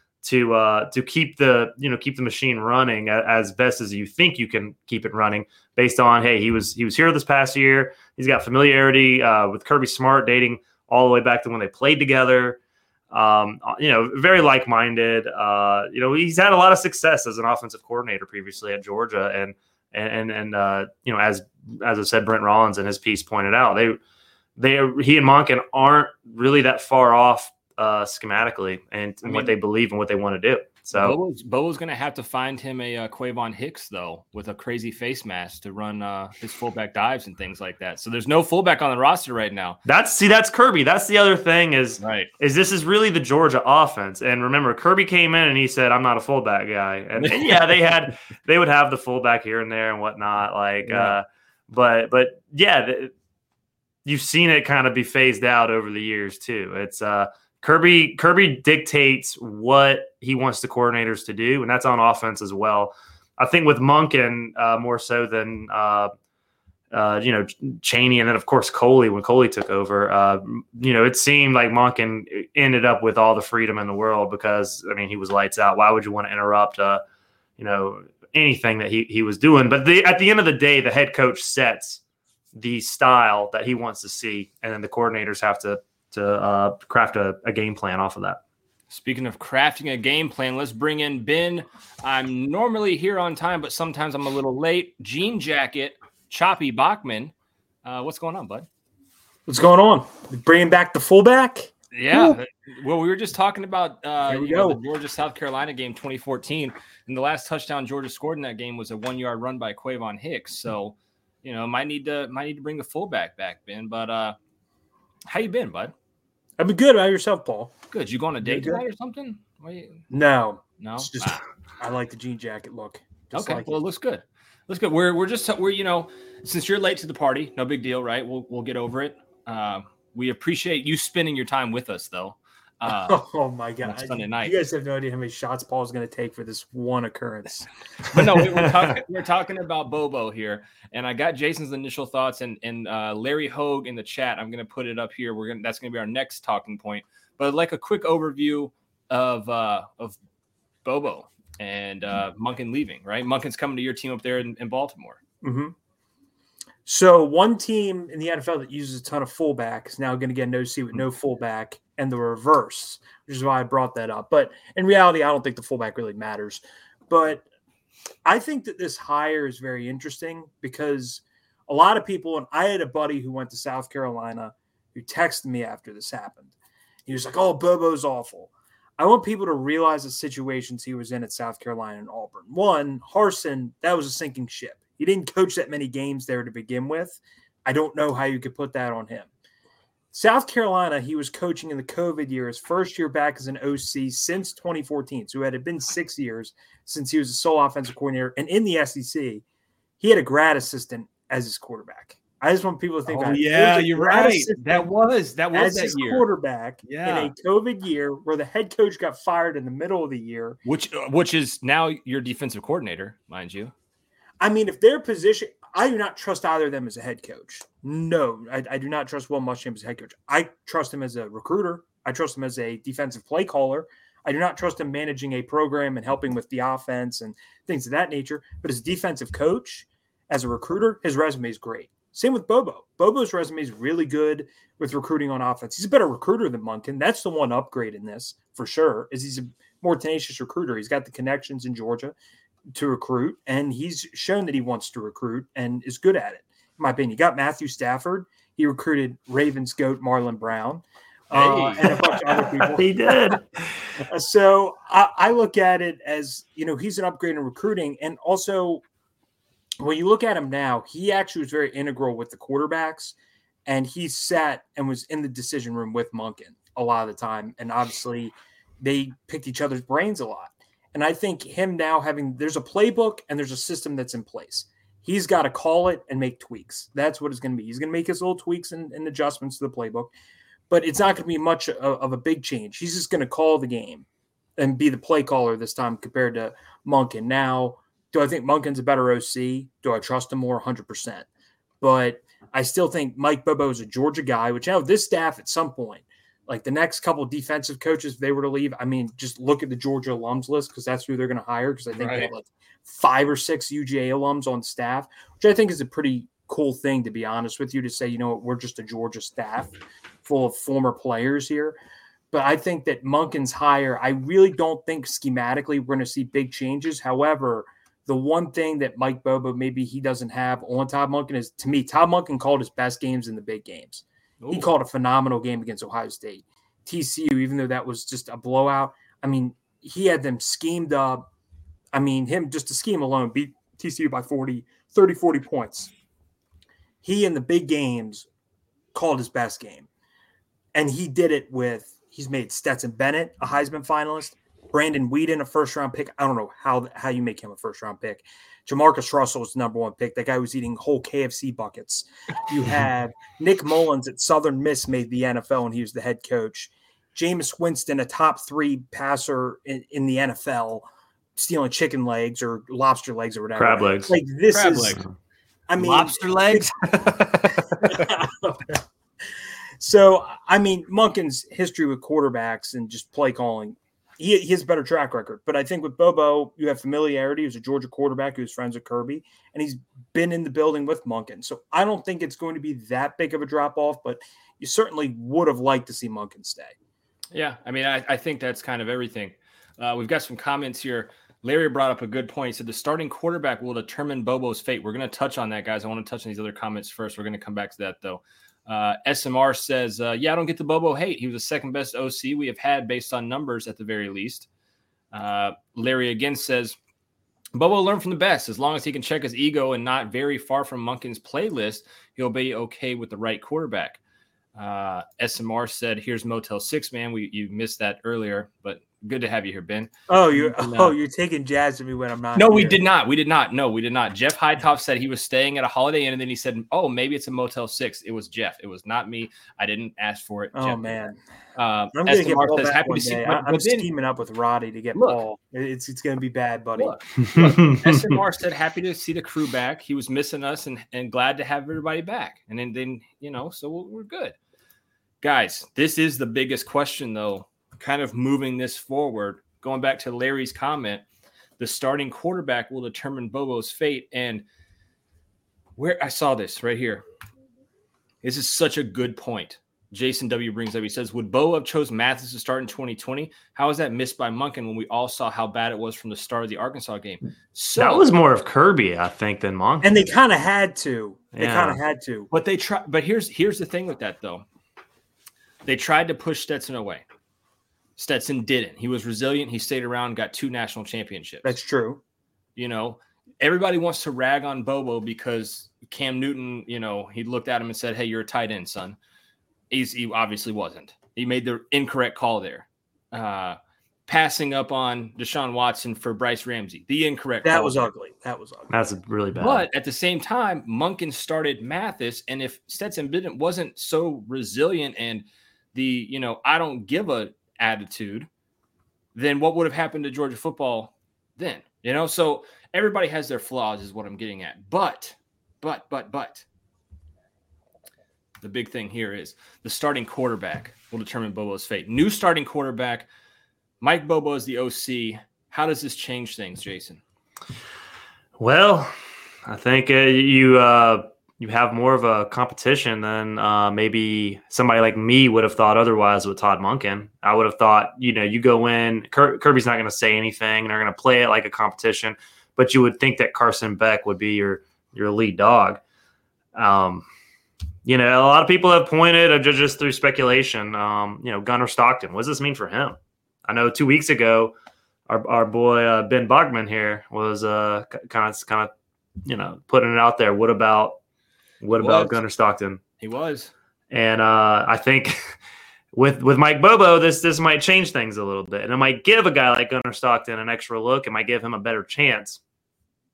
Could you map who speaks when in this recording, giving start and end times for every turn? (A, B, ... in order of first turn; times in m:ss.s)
0:00.2-0:12.6 A
0:13.1-0:24.0 A
0:24.6-0:31.2 A
0:29.2-0:29.5 B
0:31.0-0:39.8 B
0:39.9-0:53.1 A
0:42.0-0:42.3 B
0:47.2-0:47.8 B
0:50.8-0:51.2 B
0:54.0-1:06.1 A
1:06.9-1:17.0 A
1:17.6-1:22.0 A
1:22.5-1:28.4 A
1:28.9-1:37.3 B
1:37.8-1:38.7 B
1:39.5-1:42.4 C
1:41.9-1:54.4 B
1:44.3-1:44.8 C
1:55.3-1:55.9 B
1:56.6-1:57.7 C
1:57.9-2:00.0 B
1:58.4-1:58.8 C
2:00.1-2:03.8 C
2:00.8-2:01.4 B
2:03.3-2:13.2 B
2:12.9-2:17.7 C
2:13.8-2:14.6 B
2:18.1-2:30.2 B
2:30.8-2:35.2 B
2:35.4-2:35.7 C
2:36.9-2:47.4 C
2:48.2-2:56.5 C
2:57.1-3:09.3 C
3:10.1-3:19.4 C
3:20.0-3:24.9 C
3:23.1-3:26.2 B
3:25.5-3:30.6 C
3:26.8-3:27.3 B
3:30.6-3:33.7 B
3:34.4-4:02.2 C
4:02.7-4:13.4 C
4:11.3-4:11.8 B
4:11.9-4:14.0 A
4:14.0-4:18.8 C
4:19.8-4:40.1 C
4:40.7-4:44.1 C
4:44.6-4:51.3 C
4:51.8-5:09.7 C
5:02.0-5:02.3 B
5:10.2-5:11.8 C
5:12.3-5:31.2 C
5:24.4-5:24.7 B
5:31.9-5:35.9 C
5:37.0-5:38.3 C
5:38.9-5:39.9 C
5:40.7-6:05.0 C
6:03.6-6:04.2 A
6:04.5-6:05.1 B
6:05.7-6:08.8 C
6:05.8-6:08.1 B
6:09.8-6:26.7 C
6:27.3-6:44.5 B
6:45.1-6:46.8 B
6:47.5-6:54.0 B
6:54.6-7:01.0 B
7:00.1-7:02.8 C
7:02.4-7:13.9 B
7:10.5-7:11.2 C
7:11.9-7:17.0 C
7:15.0-7:15.2 B
7:16.8-7:24.4 B
7:17.3-7:18.2 A
7:25.2-7:31.0 B
7:31.6-7:34.4 B
7:35.8-7:37.0 B
7:38.2-7:48.1 B
7:47.8-7:50.0 A
7:49.8-7:52.3 C
7:51.4-7:51.8 A
7:52.3-7:54.4 B
7:55.6-7:57.0 B
7:58.0-8:01.5 B
8:01.4-8:02.0 C
8:02.6-8:09.0 B
8:09.7-8:17.9 B
8:17.4-8:18.7 C
8:18.7-8:19.7 A
8:19.4-8:28.3 B
8:29.2-8:36.4 B
8:38.4-8:43.1 B
8:43.8-8:47.0 B
8:48.4-8:48.9 A
8:49.5-9:05.8 A
9:06.6-9:07.0 A
9:07.8-9:14.5 A
9:15.1-9:18.7 A
9:19.2-9:21.0 A
9:21.6-9:22.8 A
9:21.8-9:22.2 B
9:23.0-9:23.5 B
9:23.9-9:25.3 A
9:25.9-9:32.4 A